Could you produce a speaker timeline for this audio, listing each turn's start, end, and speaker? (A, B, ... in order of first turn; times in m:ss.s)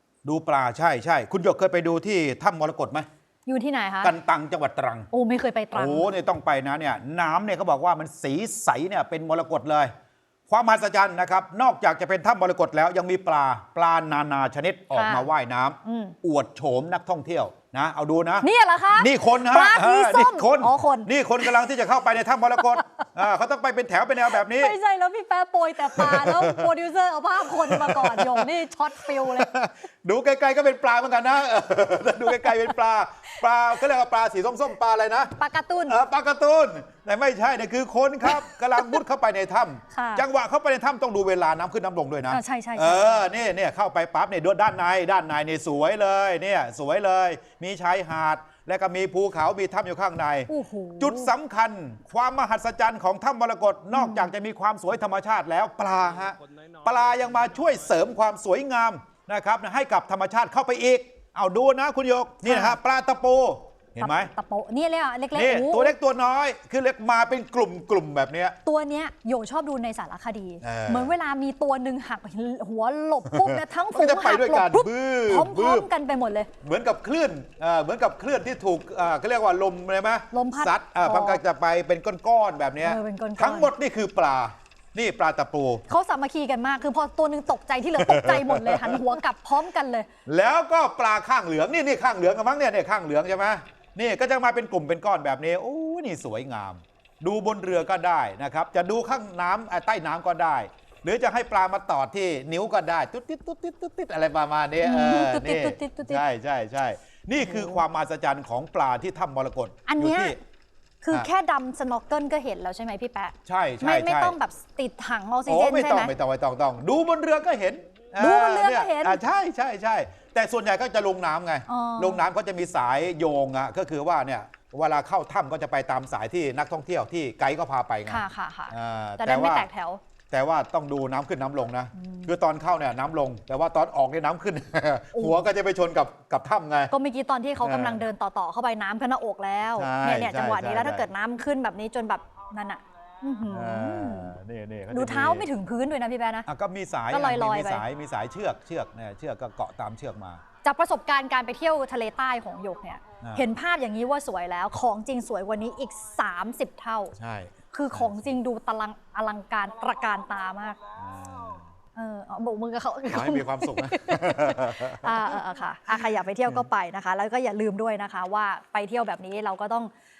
0:00.2-0:03.1 A
0:03.5-0:04.1 B
0:04.0-0:05.1 A
0:05.1-0:06.2 B
0:05.8-0:09.9 A
0:10.5-0:24.8 A
0:14.9-0:15.3 B
0:15.8-0:16.2 B
0:18.4-0:21.6 B
0:22.6-0:22.9 B
0:24.2-0:29.5 B
0:25.9-0:26.7 A
0:27.6-0:28.5 A
0:29.2-0:35.4 A
0:32.2-0:32.7 B
0:35.4-0:36.0 B
0:35.9-1:04.3 A
0:38.2-0:39.0 B
0:39.9-0:40.2 B
0:42.3-0:43.3 B
0:50.5-0:51.3 B
0:53.9-0:54.3 B
1:02.4-1:02.8 B
1:04.0-1:06.0 B
1:05.3-1:08.6 A
1:08.6-1:16.5 B
1:10.6-1:11.1 A
1:13.3-1:15.9 A
1:16.6-1:25.8 A
1:20.3-1:21.4 B
1:22.8-1:23.7 B
1:25.9-1:30.1 B
1:28.0-1:29.0 A
1:30.3-1:50.4 A
1:44.8-1:46.2 B
1:47.4-1:47.8 B
1:49.9-1:50.4 B
1:51.0-1:56.1 B
1:53.5-1:54.4 A
1:55.5-2:09.7 A
1:58.2-1:59.2 B
2:01.7-2:02.2 B
2:08.1-2:10.0 B
2:10.3-2:16.9 A
2:12.0-2:12.3 B
2:16.9-2:24.4 B
2:17.6-2:18.0 A
2:19.8-2:21.1 A
2:23.5-2:25.5 A
2:24.9-2:26.5 B
2:26.5-2:30.4 A
2:27.1-2:27.8 B
2:30.6-2:37.2 B
2:37.2-2:38.4 A
2:37.7-2:40.8 B
2:41.0-2:41.7 A
2:42.0-2:49.9 B
2:43.1-2:45.4 A